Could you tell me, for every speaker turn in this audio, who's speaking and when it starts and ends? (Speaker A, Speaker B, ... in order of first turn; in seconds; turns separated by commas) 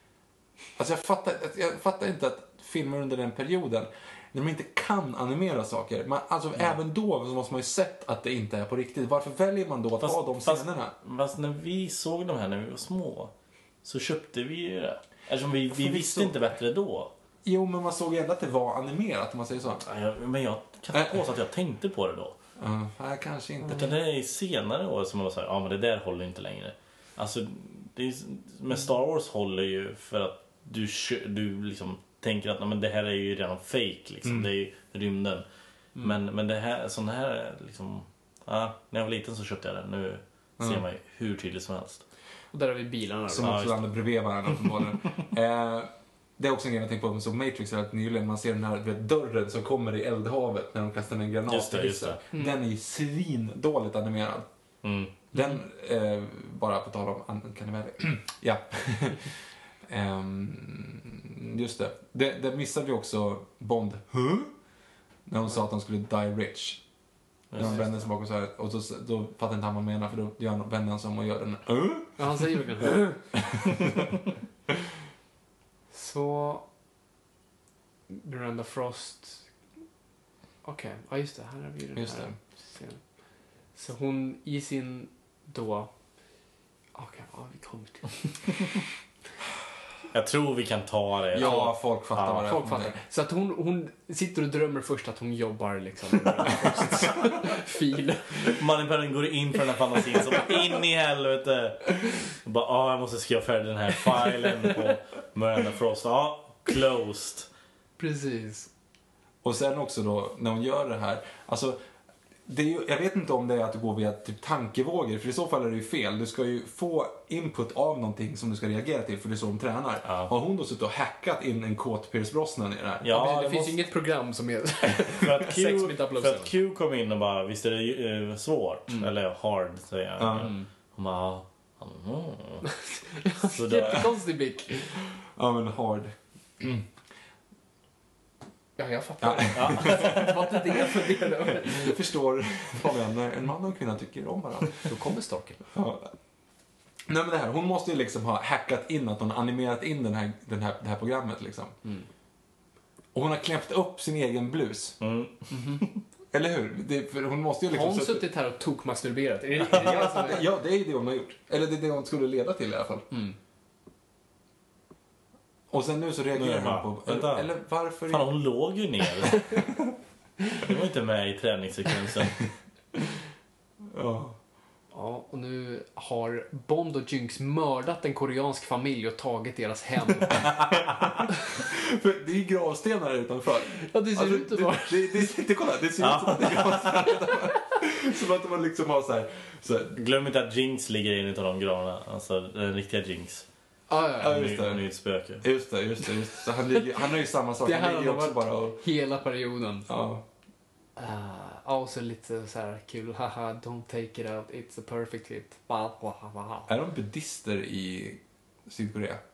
Speaker A: 0.8-10.9, Speaker B: 10.0-13.3, Speaker B: 13.8-17.1, Speaker A: 15.7-16.4, Speaker A: 17.4-19.9, Speaker B: 19.8-22.4, Speaker A: 20.9-21.2, Speaker A: 22.6-23.9, Speaker B: 23.7-35.5, Speaker B: 36.0-42.0, Speaker C: 42.5-43.6, Speaker A: 43.3-54.5, Speaker B: 43.4-43.9, Speaker B: 51.5-52.2, Speaker C: 52.3-52.6, Speaker B: 54.8-55.2, Speaker A: 55.3-59.3, Speaker A: 59.9-64.5, Speaker A: 65.3-66.8, Speaker B: 67.5-67.8, Speaker A: 67.6-72.6, Speaker C: 67.6-68.1, Speaker C: 72.2-73.2, Speaker A: 73.4-74.1, Speaker C: 75.9-76.7, Speaker C: 78.1-79.5, Speaker C: 80.6-83.0, Speaker A: 82.0-82.4, Speaker C: 83.8-85.9, Speaker C: 87.0-88.3, Speaker B: 90.1-92.5, Speaker A: 91.3-93.0, Speaker C: 91.4-91.7, Speaker C: 92.5-98.5, Speaker B: 98.4-107.5, Speaker C: 108.0-108.7, Speaker A: 109.4-111.8, Speaker A: 112.5-123.1, Speaker B: 120.1-120.3, Speaker B: 123.0-123.8, Speaker C: 123.1-126.5, Speaker B: 125.2-132.7, Speaker A: 130.2-130.5, Speaker C: 132.7-135.0, Speaker B: 133.4-134.2, Speaker A: 135.2-136.9, Speaker C: 138.8-142.0, Speaker A: 139.2-144.9, Speaker B: 139.5-140.5, Speaker C: 144.8-145.6, Speaker A: 145.7-146.1, Speaker A: 147.1-151.8, Speaker A: 153.1-155.0, Speaker B: 155.0-156.0, Speaker C: 155.5-155.8, Speaker A: 156.3-158.3, Speaker C: 157.7-160.4, Speaker A: 159.6-163.1, Speaker C: 163.1-163.4, Speaker A: 165.7-168.3, Speaker B: 166.3-167.5, Speaker B: 168.1-169.6, Speaker B: 170.6-172.4, Speaker A: 173.9-174.4, Speaker C: 174.9-180.5, Speaker A: 181.6-190.0, Speaker C: 183.7-185.3, Speaker B: 186.0-187.0, Speaker B: 189.9-193.5, Speaker C: 193.9-194.4, Speaker A: 194.2-194.8, Speaker B: 194.2-195.5, Speaker A: 195.4-198.8, Speaker C: 197.6-199.9, Speaker A: 199.9-200.2, Speaker C: 201.0-206.7, Speaker A: 206.7-209.2